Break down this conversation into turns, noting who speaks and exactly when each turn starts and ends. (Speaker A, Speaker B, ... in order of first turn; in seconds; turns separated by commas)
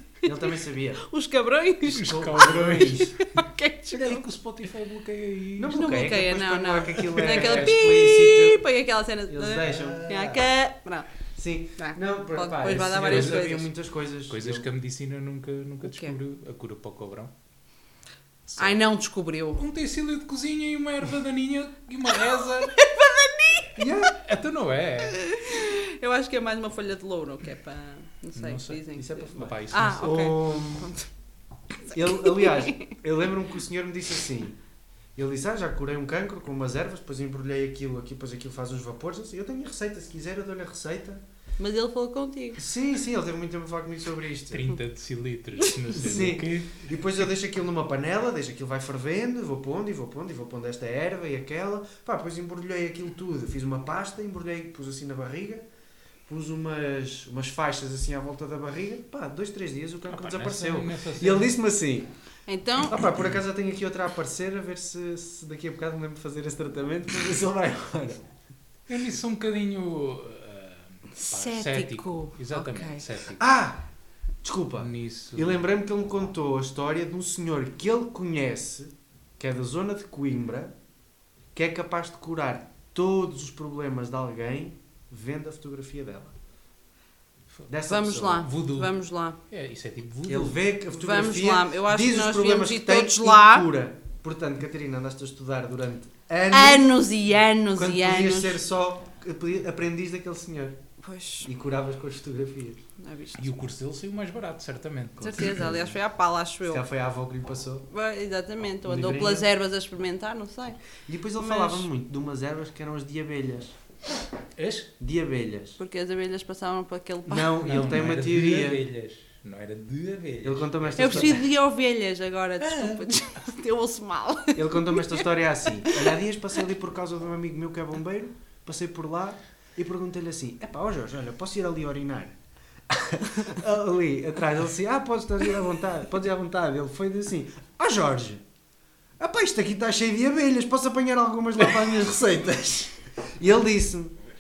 Speaker A: 0.2-1.0, Speaker B: 1.0-2.6, Speaker C: 1.9-3.2, Speaker A: 2.1-3.1, Speaker B: 3.2-4.2, Speaker C: 3.9-6.1, Speaker A: 5.6-8.6, Speaker B: 5.7-11.1, Speaker C: 7.0-7.8, Speaker A: 9.3-10.4, Speaker C: 9.6-9.9, Speaker A: 11.4-14.7, Speaker B: 11.8-13.7, Speaker C: 13.0-13.6, Speaker C: 14.3-17.3, Speaker B: 15.8-16.2, Speaker C: 18.5-18.8, Speaker B: 18.6-19.6, Speaker C: 19.6-22.8, Speaker B: 22.8-23.7, Speaker A: 23.8-24.2, Speaker C: 24.2-25.2, Speaker B: 25.1-31.1, Speaker C: 28.4-30.3, Speaker A: 29.0-30.9, Speaker B: 31.9-33.0, Speaker A: 31.9-34.6, Speaker A: 35.1-41.2, Speaker B: 41.6-42.6, Speaker A: 42.6-44.7, Speaker C: 44.5-46.9, Speaker A: 45.9-55.6, Speaker A: 56.3-62.1, Speaker C: 60.1-61.5, Speaker B: 62.5-63.0, Speaker A: 62.8-68.2, Speaker C: 68.9-73.5, Speaker B: 71.1-73.0, Speaker A: 73.4-73.8, Speaker A: 74.4-80.8, Speaker C: 74.8-75.7, Speaker A: 81.5-86.4, Speaker A: 87.7-88.5, Speaker B: 87.9-89.4, Speaker C: 88.4-89.0, Speaker C: 89.5-90.6, Speaker A: 90.3-97.0, Speaker B: 90.9-93.7, Speaker B: 96.5-98.6, Speaker A: 97.7-100.8, Speaker B: 101.0-101.5, Speaker A: 101.5-102.8, Speaker B: 103.0-103.6, Speaker C: 103.4-105.5, Speaker B: 105.2-106.8, Speaker A: 105.2-106.0, Speaker A: 106.7-107.9, Speaker B: 107.9-110.8, Speaker A: 108.8-109.5, Speaker A: 111.1-113.8, Speaker B: 111.4-111.9, Speaker C: 114.6-114.9, Speaker A: 115.0-115.8, Speaker B: 115.8-117.9, Speaker A: 117.3-118.8, Speaker C: 117.6-121.4, Speaker A: 120.4-121.4, Speaker B: 121.0-125.3, Speaker C: 122.6-123.0, Speaker A: 124.5-132.3, Speaker B: 125.8-126.1, Speaker A: 132.9-138.4, Speaker A: 139.2-144.2